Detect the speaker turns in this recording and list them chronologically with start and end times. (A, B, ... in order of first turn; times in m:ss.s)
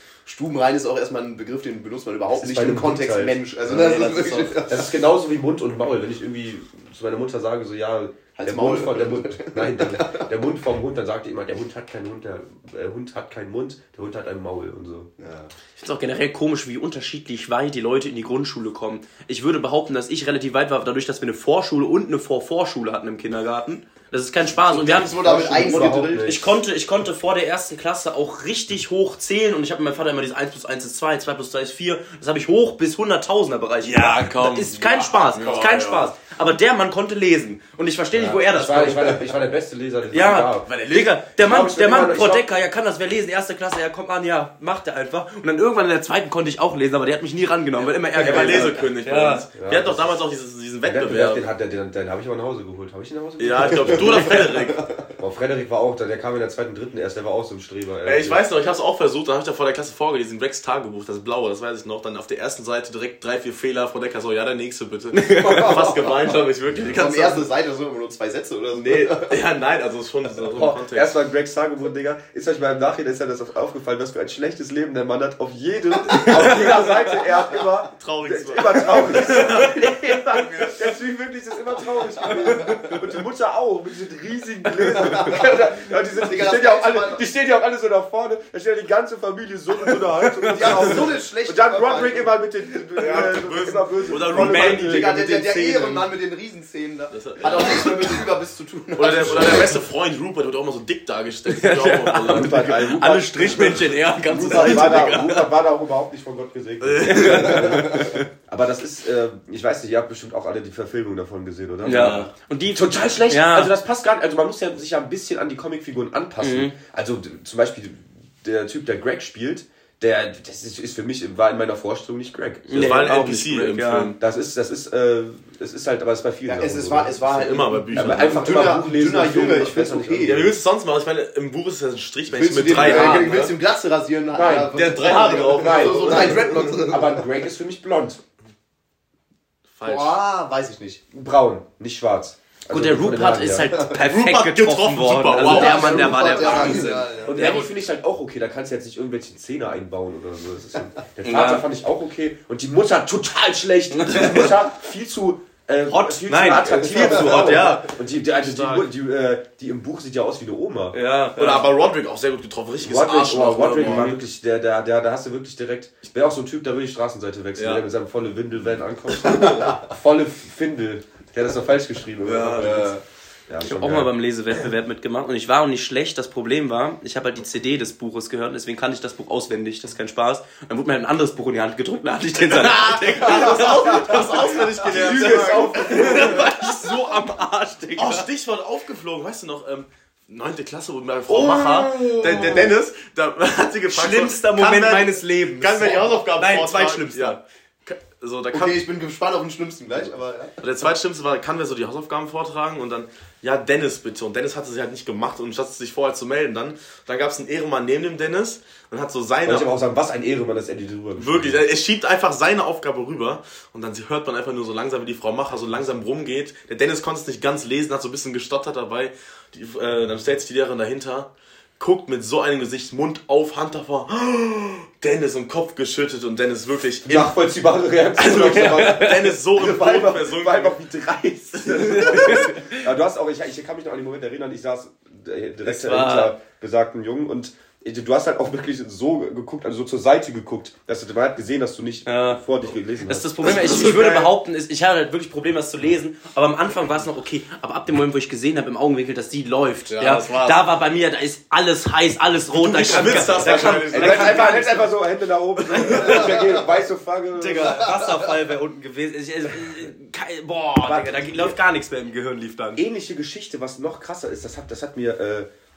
0:00.2-0:04.8 A
0:02.3-0:03.9 B
0:03.6-0:04.6 C
0:04.6-0:15.1 B
0:08.4-0:10.3 A
0:15.2-0:15.5 A
0:15.8-0:25.2 C
0:24.6-0:26.4 A
0:25.1-0:26.4 B
0:26.2-0:39.3 C
0:33.8-0:36.1 D
0:35.4-0:35.6 A
0:38.1-0:40.7 B
0:40.1-0:49.4 C
0:40.6-0:41.2 D
0:41.4-0:42.5 B
0:48.1-0:51.5 D
0:48.2-0:48.8 B
0:49.6-0:50.1 B
0:50.8-0:54.3 B
0:53.4-0:54.8 D
0:53.8-0:55.1 A
0:55.2-0:58.4 B
0:58.0-1:07.5 D
1:05.1-1:05.8 C
1:05.4-1:09.4 A
1:08.7-1:11.1 D
1:10.5-1:35.1 B
1:16.2-1:16.7 C
1:18.0-1:20.8 D
1:19.1-1:19.7 C
1:22.2-1:22.9 C
1:24.9-1:27.2 A
1:29.9-1:30.9 C
1:30.5-1:32.3 A
1:33.0-1:34.9 D
1:34.1-1:36.0 C
1:34.4-1:39.7 A
1:37.1-1:38.0 D
1:39.0-1:42.7 D
1:41.5-1:45.5 C
1:42.3-2:03.1 B
1:46.8-1:47.8 D
1:47.0-1:48.2 C
1:51.8-1:53.7 C
1:51.8-1:52.3 D
1:56.4-1:56.7 C
2:02.7-2:04.1 C
2:02.7-2:04.2 D
2:04.2-2:07.1 B
2:06.5-2:10.5 A
2:07.2-2:08.5 D
2:07.9-2:10.5 B
2:10.2-2:13.6 D
2:12.3-2:17.2 A
2:12.6-2:13.4 C
2:14.3-2:18.2 B
2:14.7-2:16.9 D
2:19.8-2:20.2 D
2:19.8-2:21.0 A
2:21.1-2:23.8 B
2:22.7-2:27.7 C
2:24.0-2:26.8 D
2:25.4-2:27.7 A
2:26.5-2:41.0 B
2:31.2-2:31.6 C
2:34.0-2:34.5 C
2:35.8-2:37.8 C
2:37.2-2:38.9 D
2:40.9-2:41.6 C
2:41.4-2:44.2 D
2:42.8-2:54.1 B
2:47.6-2:47.8 D
2:52.2-2:52.9 D
2:53.6-3:08.2 C
3:02.5-3:06.5 D
3:03.1-3:05.1 A
3:04.9-3:06.5 B
3:08.0-3:18.8 D
3:11.3-3:12.6 C
3:11.9-3:12.7 A
3:13.9-3:17.4 C
3:18.5-3:20.6 A
3:20.6-3:29.7 D
3:29.4-3:31.6 B
3:31.2-3:41.3 D
3:41.8-3:47.3 D
3:47.0-4:03.6 B
3:48.2-3:50.8 D
3:48.5-3:49.2 C
3:51.7-3:52.3 D
3:51.8-3:52.8 C
3:55.6-3:56.4 C
4:02.0-4:02.4 C
4:03.0-4:14.8 C
4:03.4-4:04.3 D
4:09.9-4:10.6 D
4:12.5-4:14.7 D
4:13.2-4:18.0 B
4:15.7-4:16.2 D
4:15.9-4:16.4 C
4:16.1-4:16.5 A
4:17.3-4:22.8 C
4:20.8-4:21.6 B
4:22.8-4:25.5 B